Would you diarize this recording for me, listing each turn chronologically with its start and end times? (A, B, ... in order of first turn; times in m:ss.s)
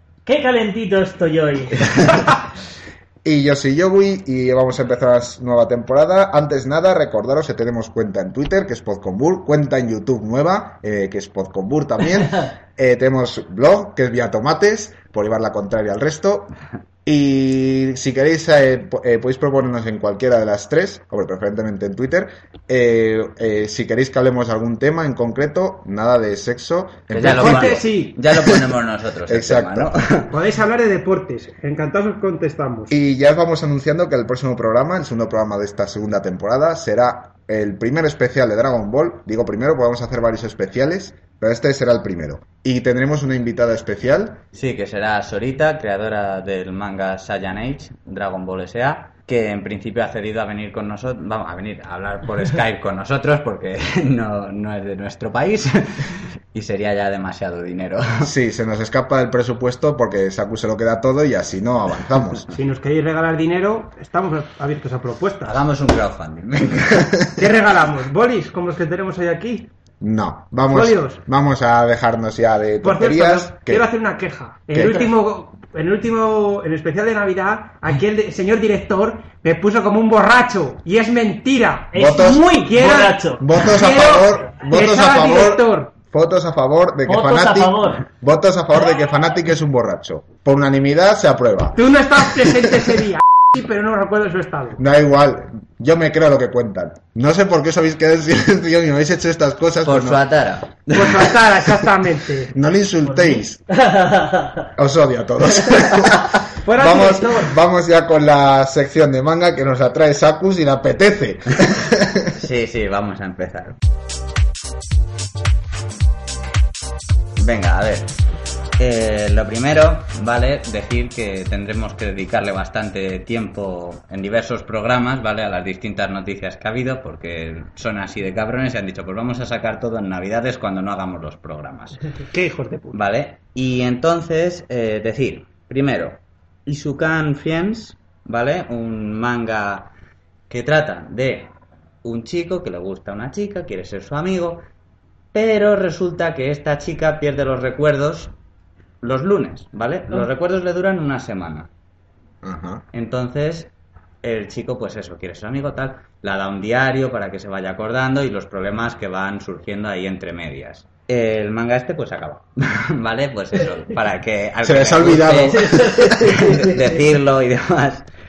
0:00.3-0:02.3 A
0:03.2-0:16.5 B
0:17.1-0:28.6 B
0:27.1-0:30.4 C
0:27.3-0:28.2 D
0:29.3-0:30.0 B
0:30.3-0:32.9 D
0:32.9-0:44.4 B
0:44.5-0:58.3 C
0:58.2-1:02.5 B
1:02.5-1:05.6 D
1:05.4-1:07.4 C
1:07.4-1:09.7 D
1:10.0-1:13.9 B
1:10.7-1:11.2 D
1:12.8-1:22.0 D
1:14.7-1:15.1 B
1:21.9-1:23.4 A
1:22.0-1:22.5 B
1:22.5-1:25.9 D
1:23.4-1:31.8 B
1:27.1-1:28.0 A
1:31.8-1:34.8 D
1:34.8-1:40.2 B
1:39.8-1:41.4 C
1:40.9-1:42.5 D
1:42.5-1:43.6 B
1:43.2-1:44.7 A
1:44.8-1:52.3 B
1:46.6-1:47.5 D
1:52.3-1:53.8 C
1:57.4-1:58.1 C
1:58.8-2:12.0 C
2:12.3-2:13.0 D
2:12.9-2:19.9 C
2:20.5-2:21.5 C
2:22.0-2:24.6 C
2:25.3-2:28.3 C
2:29.0-2:31.7 C
2:32.4-2:32.8 B
2:32.9-2:33.7 C
2:34.2-2:48.1 C
2:44.6-2:46.5 B
2:45.5-2:47.0 A